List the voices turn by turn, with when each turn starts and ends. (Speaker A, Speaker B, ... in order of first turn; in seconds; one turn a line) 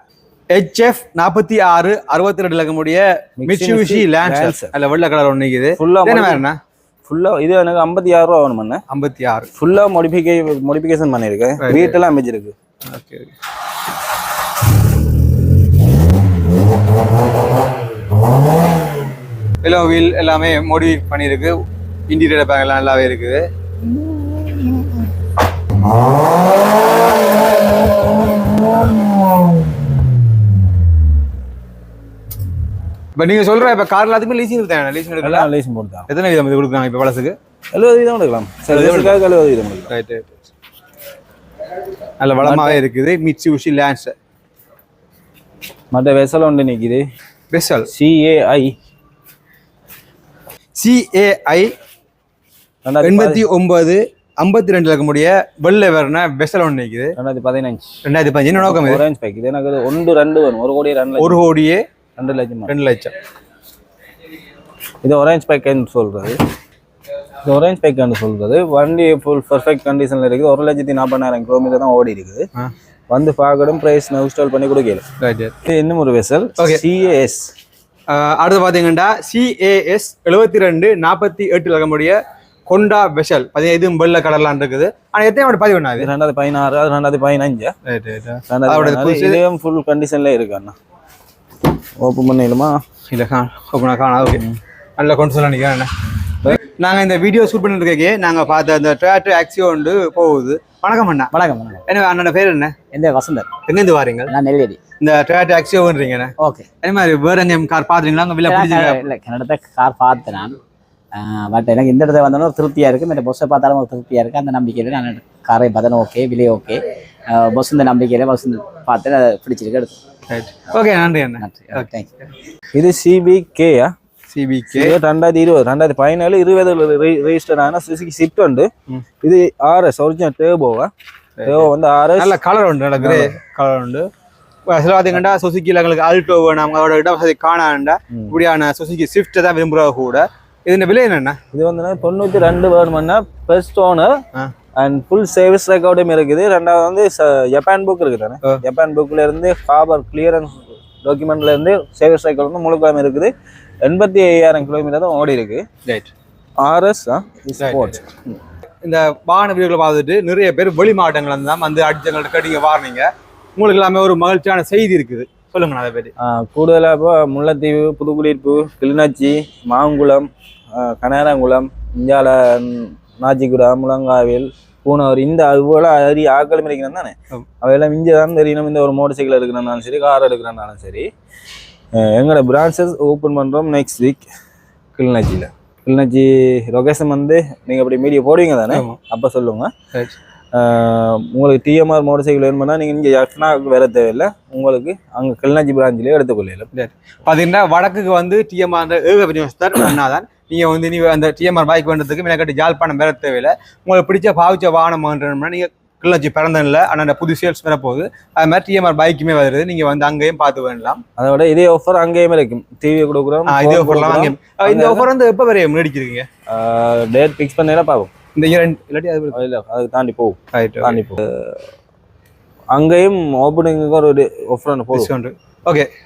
Speaker A: 0.5-6.6
Speaker B: 3.4-4.7
Speaker B: 5.8-6.4
Speaker B: 7.0-8.8
Speaker A: 8.9-9.5
Speaker B: 9.6-12.5
Speaker A: 11.6-12.0
Speaker A: 12.9-13.3
Speaker A: 19.6-21.5
Speaker A: 22.1-23.4
Speaker A: 33.2-35.5
Speaker B: 35.2-36.1
Speaker A: 36.1-37.4
Speaker B: 37.7-39.9
Speaker A: 38.7-39.2
Speaker A: 39.9-40.4
Speaker A: 42.2-44.1
Speaker B: 42.4-42.8
Speaker B: 45.9-47.0
Speaker A: 47.5-47.9
Speaker B: 47.9-48.7
Speaker A: 50.8-51.7
Speaker B: 52.8-53.4
Speaker A: 53.0-57.1
Speaker B: 57.1-58.0
Speaker A: 58.0-59.0
Speaker B: 58.5-61.4
Speaker A: 61.2-61.8
Speaker B: 62.2-62.7
Speaker A: 62.7-63.1
Speaker B: 65.0-66.4
Speaker B: 67.4-72.5
Speaker B: 73.1-75.0
Speaker A: 75.2-75.5
Speaker B: 75.6-77.5
Speaker A: 76.6-76.8
Speaker A: 78.1-86.1
Speaker B: 86.0-87.7
Speaker A: 87.9-89.4
Speaker B: 88.5-90.8
Speaker B: 92.0-92.8
Speaker A: 93.1-94.4
Speaker A: 95.0-95.9
Speaker A: 96.4-101.3
Speaker C: 101.3-101.8
Speaker A: 101.9-102.7
Speaker C: 102.9-103.5
Speaker A: 103.7-104.3
Speaker C: 104.3-104.8
Speaker A: 105.0-109.0
Speaker C: 106.4-106.7
Speaker C: 108.4-110.6
Speaker C: 111.2-120.0
Speaker A: 120.3-121.8
Speaker C: 121.4-122.3
Speaker B: 122.7-123.9
Speaker A: 124.3-125.0
Speaker B: 124.7-128.7
Speaker B: 129.2-130.9
Speaker A: 131.4-134.1
Speaker B: 131.4-132.4
Speaker B: 133.0-133.3
Speaker A: 134.7-141.4
Speaker B: 138.1-138.4
Speaker B: 141.5-144.2
Speaker B: 144.8-153.3
Speaker B: 153.8-155.6
Speaker A: 155.8-156.1
Speaker B: 156.6-158.1
Speaker A: 157.6-158.0
Speaker A: 158.8-166.1
Speaker B: 166.2-181.1
Speaker B: 181.9-184.3
Speaker B: 184.9-189.7
Speaker A: 188.7-189.0
Speaker B: 190.5-196.7
Speaker A: 196.7-211.0
Speaker B: 211.2-215.1
Speaker A: 213.4-216.2
Speaker B: 216.5-218.1
Speaker A: 218.3-219.4
Speaker B: 219.3-221.6
Speaker A: 220.5-221.0
Speaker B: 222.7-225.1
Speaker A: 224.9-225.9